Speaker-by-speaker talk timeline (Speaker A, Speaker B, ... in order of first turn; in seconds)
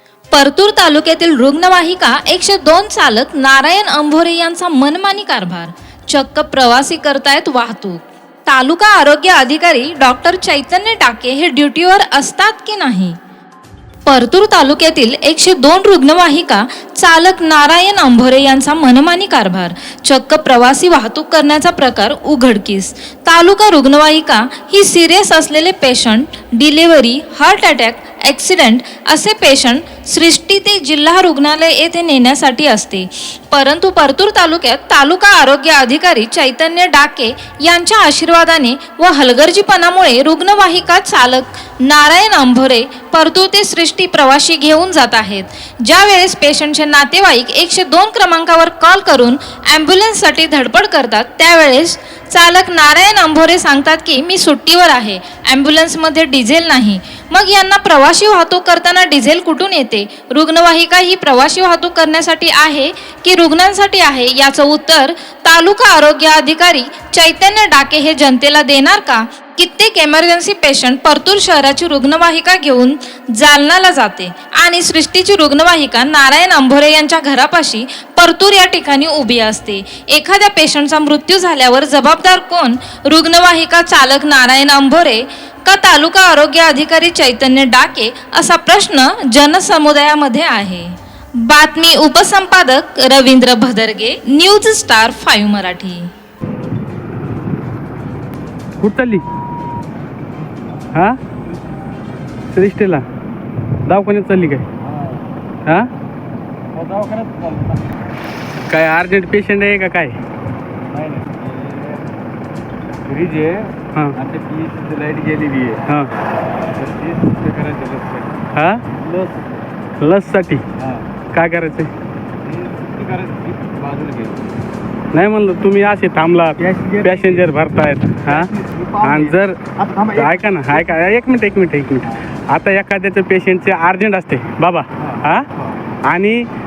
Speaker A: 0.3-13.2, 14.1-96.1
Speaker B: 98.8-99.2, 102.5-103.0, 103.9-104.7, 108.7-110.2, 115.8-116.1, 118.5-118.8, 120.0-120.6, 121.3-121.9, 125.1-128.5, 129.0-129.6, 130.2-135.5, 136.0-136.5
Speaker C: 104.8-105.2, 106.7-107.9, 110.9-112.1, 113.1-116.0, 116.8-118.4, 118.9-119.6, 120.8-121.1, 122.5-124.4, 126.6-127.5, 128.2-130.9, 135.0-135.8